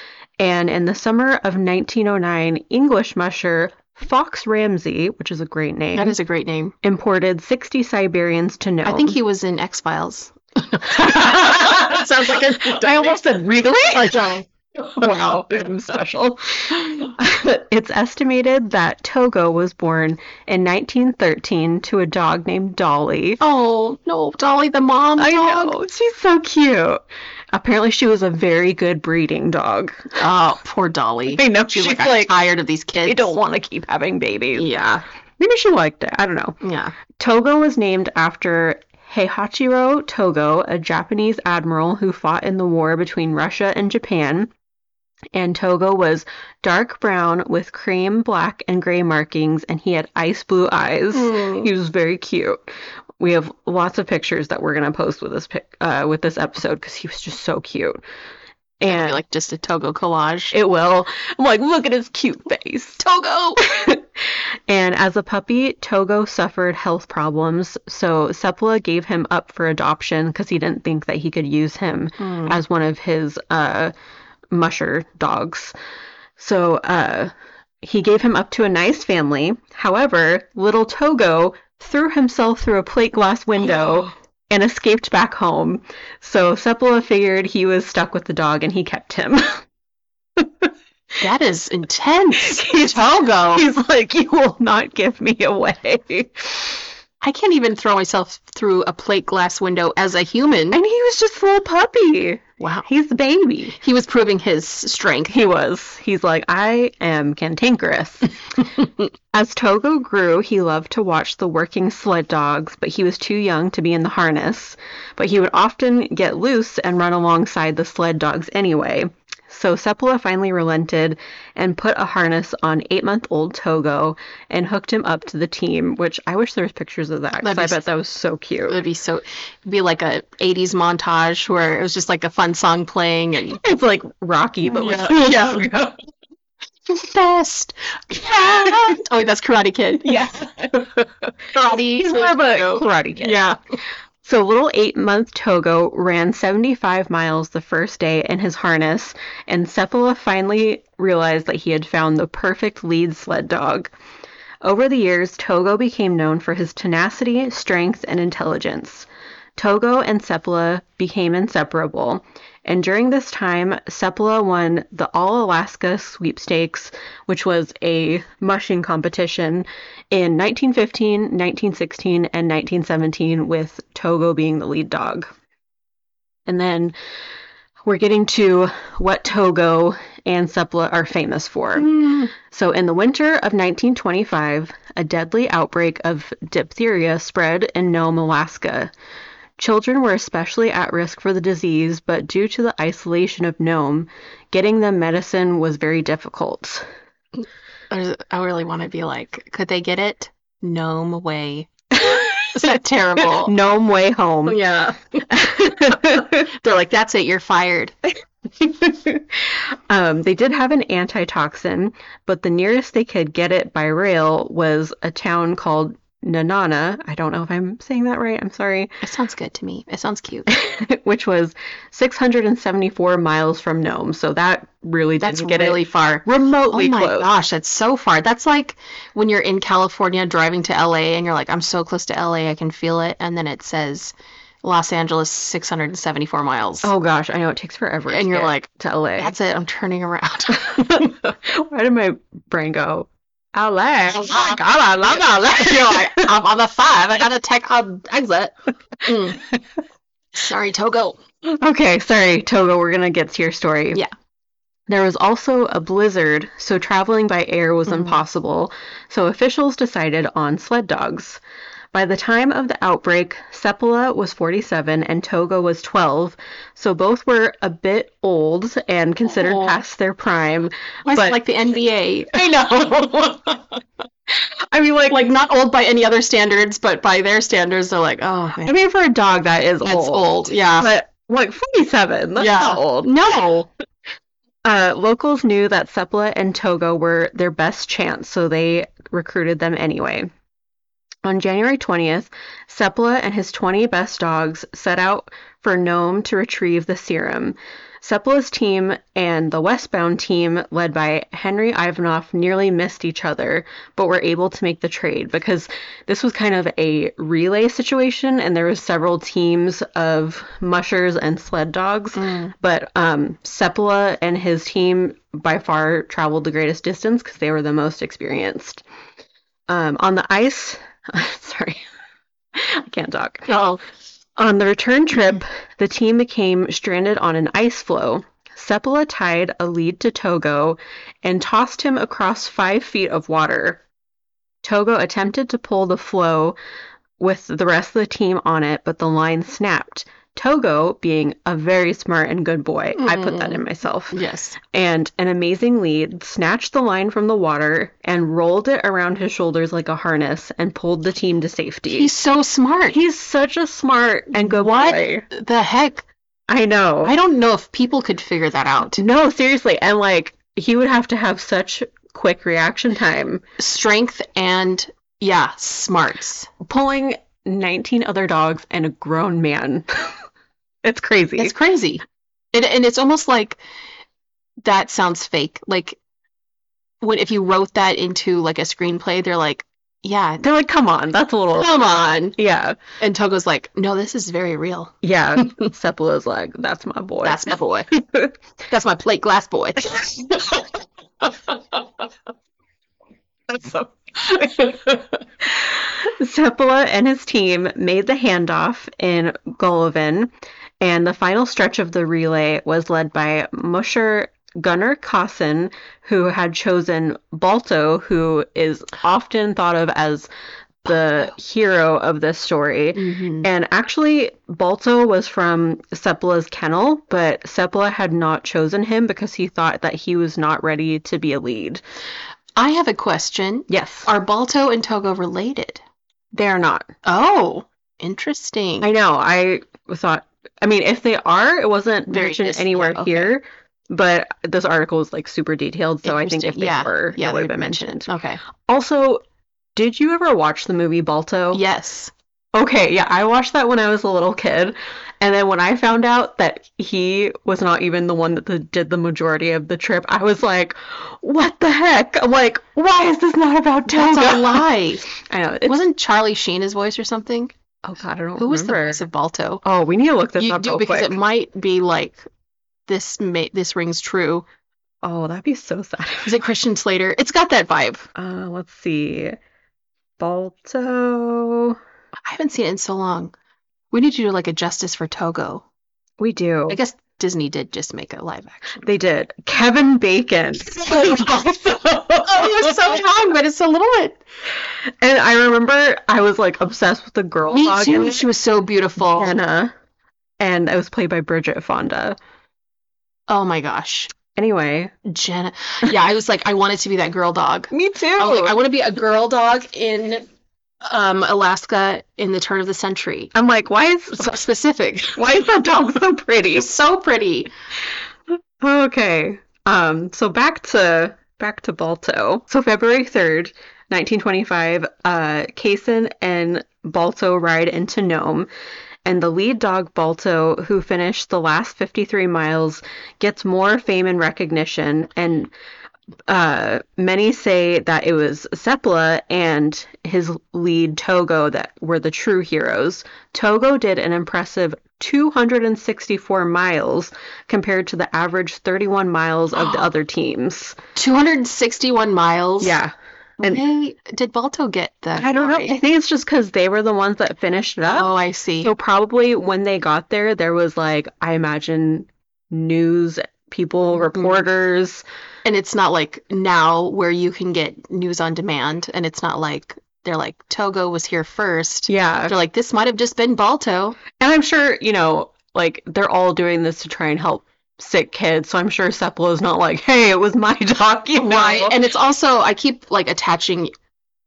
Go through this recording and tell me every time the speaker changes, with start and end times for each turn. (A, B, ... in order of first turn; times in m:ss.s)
0:00.4-0:06.2 A
0:06.0-0:06.8 B
0:06.8-0:09.2 A
0:08.8-0:13.2 B
0:11.0-0:12.1 A
0:12.6-0:23.4 A
0:23.4-0:25.8 B
0:25.2-0:30.2 A
0:30.2-0:33.3 B
0:31.3-0:32.3 A
0:33.0-0:34.7 A
0:34.6-0:35.0 B
0:35.4-0:36.6 A
0:36.6-0:37.0 B
0:37.2-0:44.5 A
0:45.3-0:52.6 A
0:51.1-0:51.7 B
0:53.2-0:58.0 A
0:58.8-0:59.2 A
0:58.9-1:00.5 B
1:00.5-1:03.0 A
1:03.0-1:03.6 B
1:03.6-1:13.9 A
1:12.2-1:12.6 B
1:14.5-1:15.7 A
1:16.4-1:29.6 A
1:30.4-1:30.7 A
1:31.2-1:33.7 B
1:32.3-1:36.8 A
1:37.2-1:40.8 B
1:40.7-1:43.8 A
1:42.6-1:42.9 B
1:43.8-1:45.3 B
1:45.3-1:48.4 A
1:49.3-2:08.8 A
2:07.4-2:07.8 B
2:08.7-2:13.6 B
2:13.6-2:15.9 A
2:14.7-2:15.7 B
2:16.9-2:23.6 B
2:18.3-2:19.0 A
2:20.0-2:20.8 A
2:21.7-2:23.4 A
2:24.2-2:33.9 A
2:34.6-2:55.3 A
2:56.5-2:57.0 A
2:57.8-3:08.9 A
3:01.8-3:02.3 B
3:09.6-3:16.9 A
3:17.9-3:23.5 B
3:22.0-3:22.6 A
3:23.2-3:24.6 A
3:24.5-3:28.0 B
3:25.3-3:26.5 A
3:28.6-3:39.0 A
3:39.0-3:40.5 B
3:40.5-3:47.3 A
3:45.2-3:56.9 B
3:56.8-3:59.3 A
3:58.1-4:01.2 B
4:00.5-4:06.3 A
4:04.1-4:09.5 B
4:10.3-4:11.2 B
4:11.4-4:14.0 A
4:14.9-4:21.4 A
4:17.9-4:18.2 B
4:21.9-4:31.4 A
4:29.3-4:29.8 B
4:31.1-4:33.6 B
4:32.3-4:33.5 A
4:34.3-4:35.2 A
4:35.1-4:38.8 B
4:38.6-4:43.1 A
4:39.8-4:40.9 B
4:42.4-4:43.7 B
4:44.6-4:50.3 A
4:51.2-5:18.8 A
5:12.2-5:12.5 B
5:19.7-5:21.8 A
5:22.5-5:23.5 A
5:23.5-5:23.8 B
5:24.4-5:33.8 A
5:34.6-5:36.6 A
5:37.2-5:52.1 A
5:43.0-5:44.6 B
5:51.9-5:53.0 B
5:52.9-5:55.2 A
5:54.3-5:56.1 B
5:56.5-5:57.1 A
5:57.0-5:59.0 B
5:59.0-6:03.4 A
6:03.6-6:06.5 B
6:06.6-6:10.2 A
6:10.8-6:11.6 A
6:11.4-6:13.6 B
6:14.6-6:16.0 B
6:17.0-6:20.4 B
6:20.4-6:21.8 A
6:21.6-6:22.4 B
6:22.4-6:22.8 A
6:23.0-6:25.7 B
6:25.0-6:28.3 A
6:27.2-6:27.9 B
6:28.7-6:30.6 B
6:33.5-6:34.9 A
6:33.8-6:34.6 B
6:35.4-6:50.3 A
6:50.8-7:01.8 A
6:53.0-6:53.5 B
7:02.6-7:05.8 B
7:03.7-7:04.1 A
7:06.3-7:06.9 A
7:07.0-7:08.9 B
7:08.8-7:18.1 A
7:12.1-7:13.3 B
7:16.0-7:18.4 B
7:18.7-7:19.2 A
7:19.8-7:21.6 A
7:21.5-7:22.1 B
7:22.5-7:35.8 A
7:33.9-7:35.1 B
7:35.7-7:37.5 B
7:37.8-7:39.1 A
7:38.4-7:39.6 B
7:39.6-7:41.2 A
7:40.4-7:42.2 B
7:42.9-7:44.5 B
7:45.0-7:46.3 A
7:46.2-7:48.1 B
7:48.2-7:49.4 A
7:50.2-7:51.8 A
7:52.2-7:53.3 B
7:53.9-7:55.6 B
7:56.2-7:56.8 A
7:56.7-7:58.9 B
7:58.8-8:03.0 A
8:00.9-8:01.3 B
8:02.2-8:04.2 B
8:04.6-8:08.2 A
8:07.5-8:09.3 B
8:09.1-8:09.7 A
8:10.4-8:12.2 A
8:13.3-8:14.1 B
8:14.4-8:14.9 A
8:15.0-8:20.3 B
8:17.7-8:18.6 A
8:20.8-8:23.3 B
8:23.3-8:24.4 A
8:24.1-8:25.2 B
8:25.2-8:26.7 A
8:26.5-8:27.5 B
8:28.6-8:38.5 A
8:39.0-8:45.5 A
8:46.3-9:00.8 A
8:59.6-8:59.9 B
9:01.0-9:02.8 B
9:02.6-9:03.6 A
9:03.4-9:05.8 B
9:05.2-9:08.1 A
9:07.9-9:08.7 B
9:08.6-9:15.0 A
9:14.0-9:14.4 B
9:15.4-9:24.0 B
9:21.9-9:22.3 A
9:24.2-9:31.8 A
9:31.2-9:33.7 B